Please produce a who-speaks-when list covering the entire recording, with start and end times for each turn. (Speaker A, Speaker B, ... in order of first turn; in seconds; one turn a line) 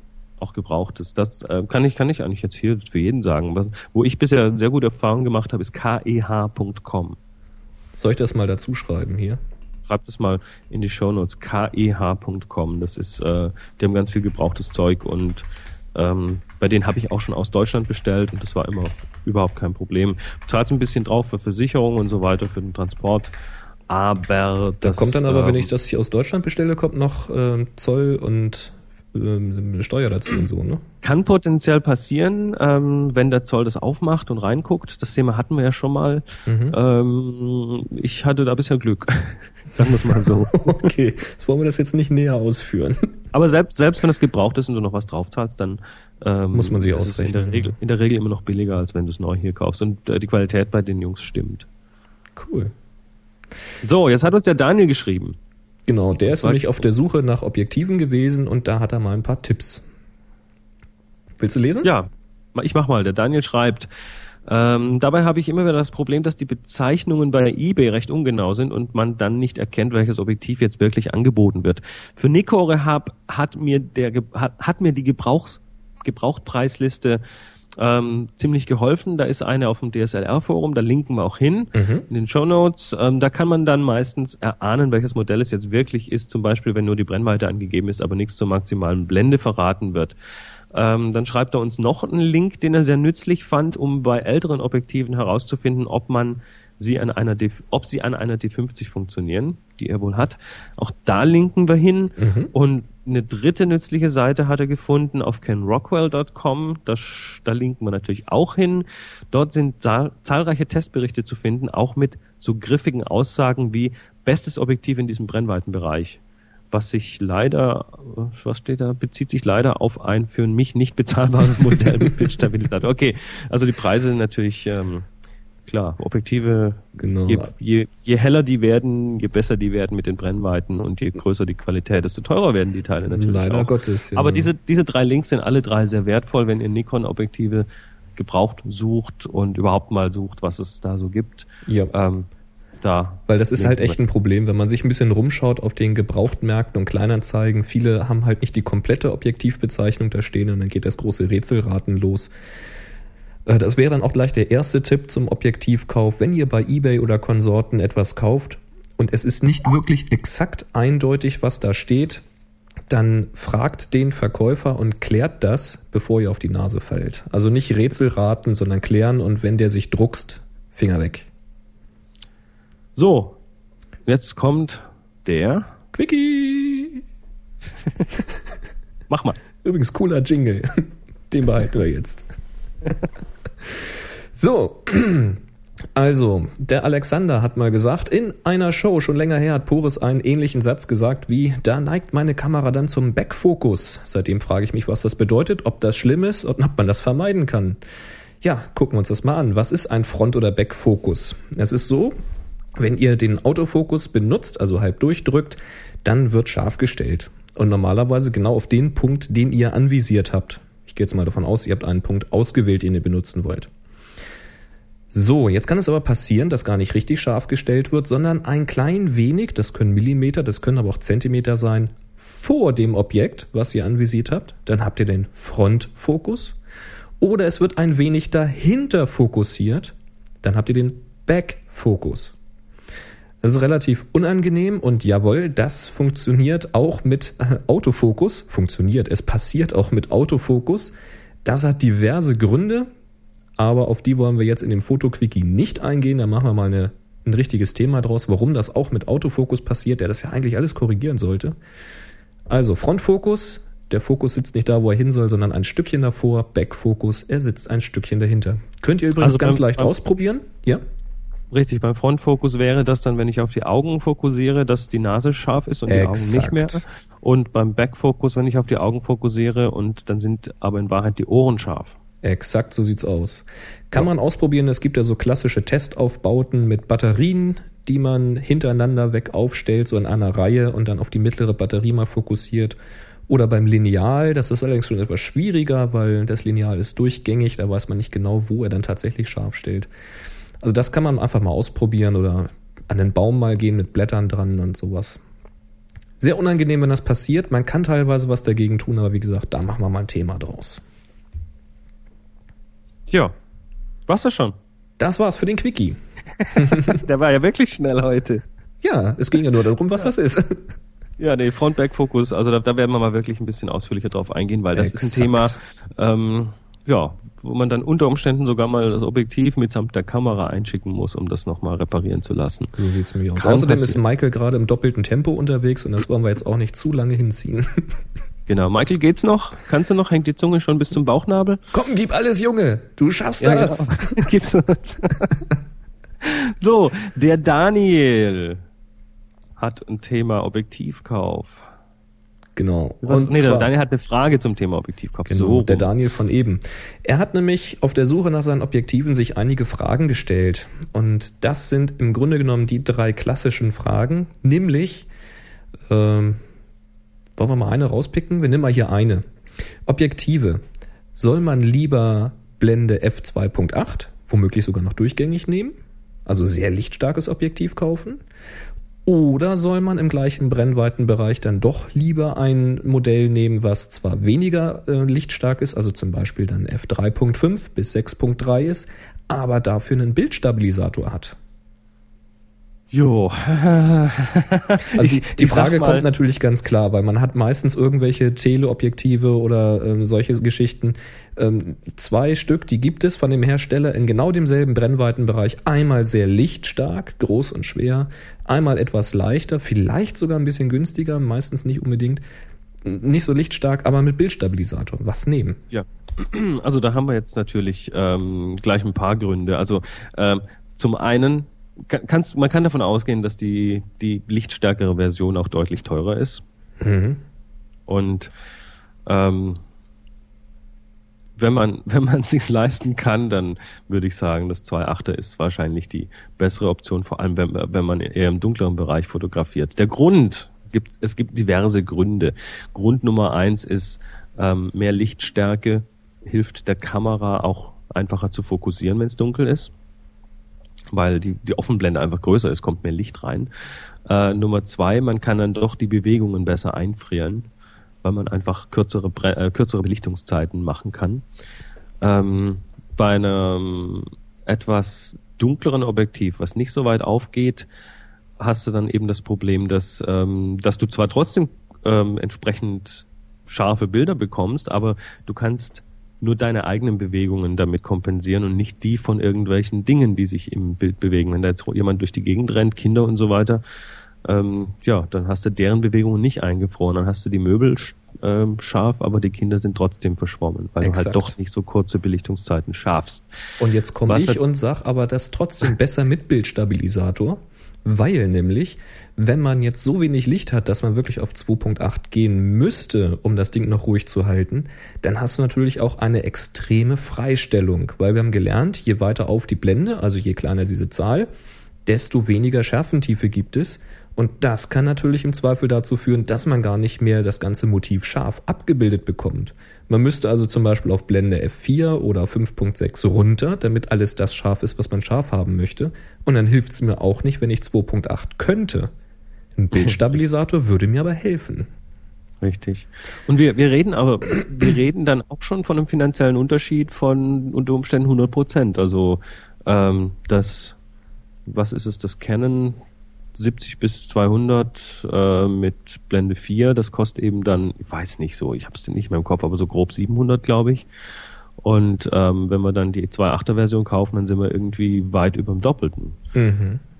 Speaker A: 0.4-7.2
Speaker B: 8.0-9.4
Speaker A: 9.9-23.3
Speaker A: 23.9-25.7
Speaker B: 24.8-30.8
Speaker A: 31.0-40.9
Speaker B: 36.5-36.8
Speaker B: 40.2-43.1
Speaker A: 43.3-51.7
Speaker B: 46.5-47.7
Speaker B: 52.4-52.7
Speaker A: 53.8-55.4
Speaker B: 55.9-59.8
Speaker A: 56.2-56.8
Speaker B: 61.4-61.9
Speaker A: 61.8-63.9
Speaker A: 64.5-77.2
Speaker A: 77.8-90.1
Speaker B: 81.7-82.0
Speaker A: 90.7-116.2
Speaker B: 102.2-102.5
Speaker A: 116.7-125.1
Speaker B: 121.8-122.4
Speaker A: 125.7-142.3
Speaker B: 127.0-127.5
Speaker B: 133.1-134.5
Speaker B: 141.7-141.9
Speaker A: 142.8-144.0
Speaker B: 143.3-152.3
Speaker B: 153.4-162.2
Speaker B: 162.9-171.3
Speaker A: 172.9-173.4
Speaker A: 174.1-175.7
Speaker B: 175.9-177.0
Speaker A: 179.1-179.4
Speaker B: 179.6-182.3
Speaker B: 183.7-185.4
Speaker B: 185.9-197.8
Speaker B: 198.4-202.1
Speaker B: 202.8-213.7
Speaker B: 215.1-226.6
Speaker B: 227.2-232.3
Speaker B: 233.4-240.9
Speaker B: 241.4-242.9
Speaker B: 243.6-251.6
Speaker B: 252.5-260.8
Speaker A: 259.2-259.9
Speaker A: 261.5-271.9
Speaker B: 265.9-266.8
Speaker B: 272.2-282.8
Speaker B: 283.3-289.9
Speaker B: 290.6-295.2
Speaker B: 296.2-300.8
Speaker A: 303.1-303.3
Speaker A: 304.1-304.5
Speaker B: 305.0-306.0
Speaker A: 306.4-308.4
Speaker B: 306.5-307.0
Speaker B: 308.8-310.7
Speaker A: 311.2-322.7
Speaker B: 314.8-315.6
Speaker B: 322.7-327.9
Speaker A: 323.4-324.0
Speaker A: 328.5-331.6
Speaker B: 331.7-334.3
Speaker A: 333.4-335.3
Speaker A: 336.2-338.6
Speaker A: 339.6-341.6
Speaker B: 342.6-343.7
Speaker A: 343.0-345.9
Speaker B: 345.3-355.1
Speaker B: 355.9-356.4
Speaker B: 357.4-359.2
Speaker B: 359.9-360.6
Speaker B: 361.1-368.2
Speaker B: 369.0-381.4
Speaker A: 382.9-386.1
Speaker B: 384.9-402.2
Speaker B: 402.8-405.6
Speaker A: 405.7-416.4
Speaker B: 416.8-417.2
Speaker A: 417.9-418.3
Speaker A: 419.1-419.6
Speaker A: 421.4-439.7
Speaker A: 440.9-443.5
Speaker A: 444.1-447.4
Speaker A: 448.0-451.2
Speaker A: 452.0-457.7
Speaker A: 458.4-473.6
Speaker A: 474.2-483.3
Speaker B: 480.8-481.3
Speaker B: 483.6-501.3
Speaker A: 484.1-484.4
Speaker B: 501.9-518.9
Speaker B: 519.5-521.7
Speaker A: 519.7-520.2
Speaker A: 522.4-530.8
Speaker A: 531.5-532.8
Speaker A: 533.3-540.9
Speaker A: 541.6-546.2
Speaker B: 546.3-546.8